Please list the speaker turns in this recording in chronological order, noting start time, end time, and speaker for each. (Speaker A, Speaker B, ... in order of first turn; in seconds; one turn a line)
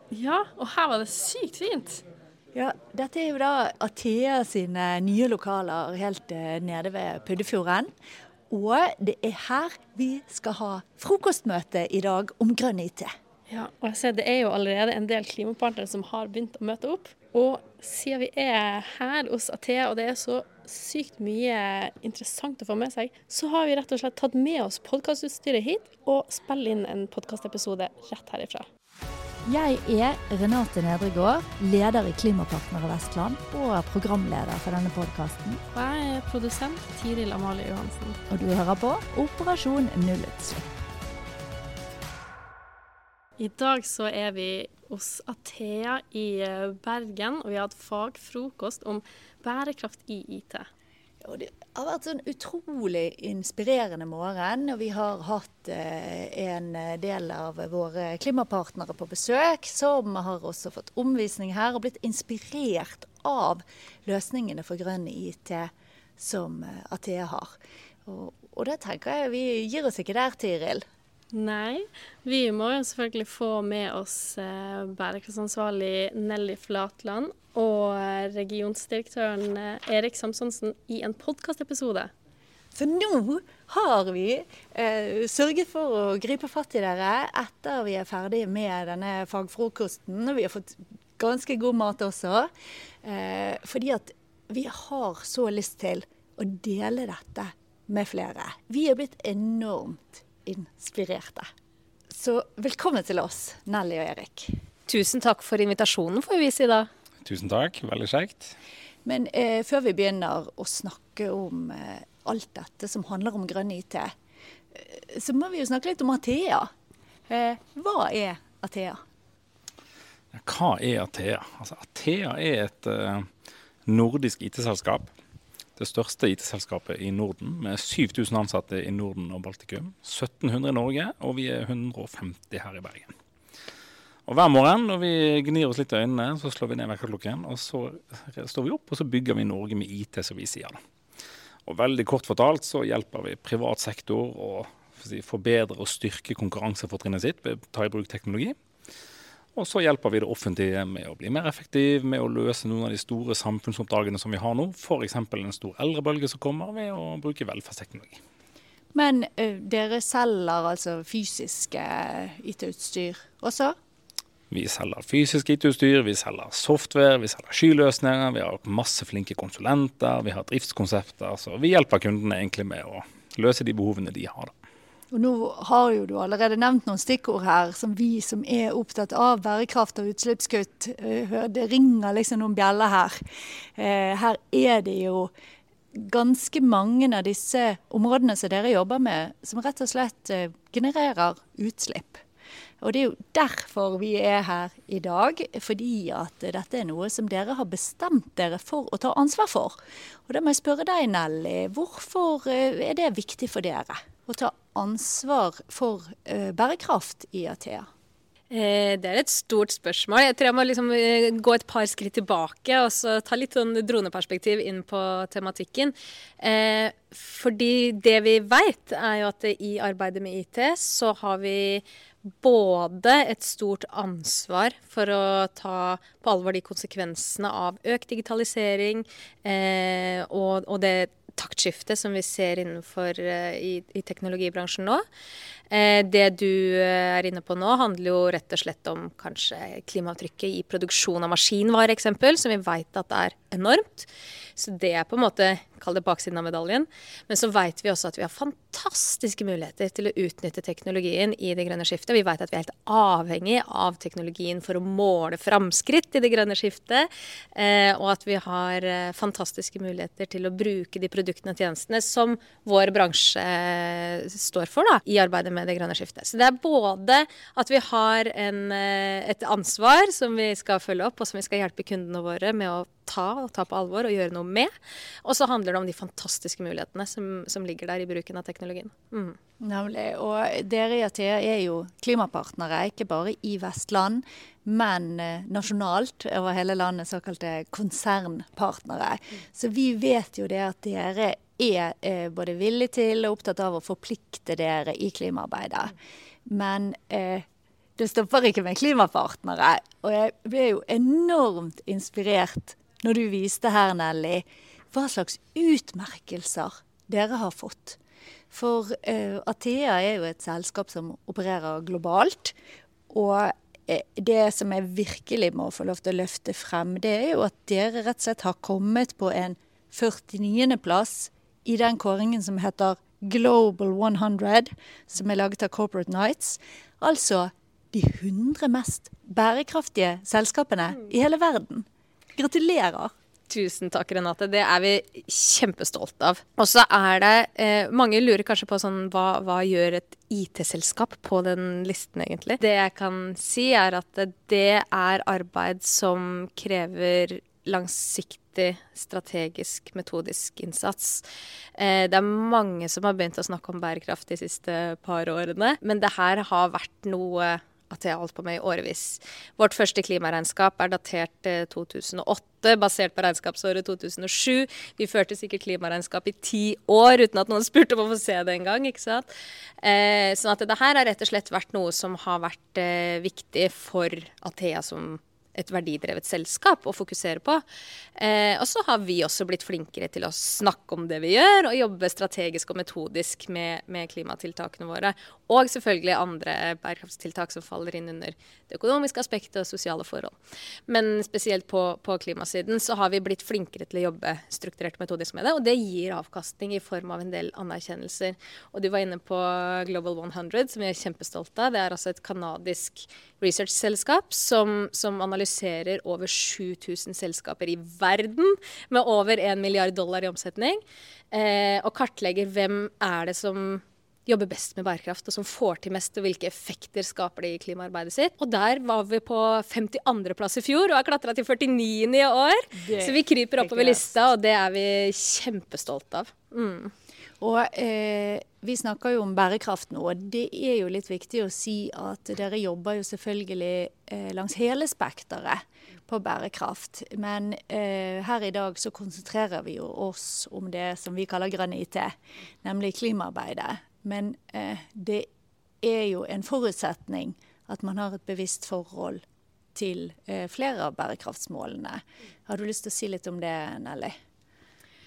Speaker A: 0.1-2.0
Speaker B: 2.5-7.9
Speaker B: 8.5-13.1
Speaker A: 13.5-28.7
Speaker B: 29.4-35.6
Speaker A: 35.7-38.2
Speaker B: 38.3-40.7
Speaker A: 43.4-50.7
Speaker B: 51.2-70.8
Speaker A: 71.3-82.1
Speaker B: 82.7-92.5
Speaker B: 93.0-101.5
Speaker B: 102.1-104.5
Speaker C: 104.9-106.9
Speaker D: 107.2-108.5
Speaker B: 109.0-114.1
Speaker B: 114.7-116.7
Speaker B: 117.3-119.0
Speaker D: 120.3-123.3
Speaker D: 123.8-125.1
Speaker D: 125.8-133.1
Speaker D: 134.3-140.8
Speaker D: 141.7-148.5
Speaker D: 149.5-158.2
Speaker B: 158.9-163.8
Speaker D: 164.5-174.5
Speaker B: 175.1-183.2
Speaker B: 183.8-185.3
Speaker B: 185.9-192.2
Speaker B: 192.8-199.8
Speaker B: 200.3-207.9
Speaker C: 208.5-221.8
Speaker C: 222.4-235.0
Speaker C: 235.7-274.7
Speaker C: 275.2-279.4
Speaker B: 279.6-297.4
Speaker B: 298.0-308.0
Speaker B: 308.5-312.5
Speaker B: 313.1-333.1
Speaker C: 333.5-369.3
Speaker C: 369.8-377.6
Speaker C: 378.2-390.3
Speaker C: 390.9-410.8
Speaker C: 411.3-426.9
Speaker A: 422.8-424.1
Speaker B: 427.4-445.3
Speaker B: 445.8-449.2
Speaker B: 449.7-454.1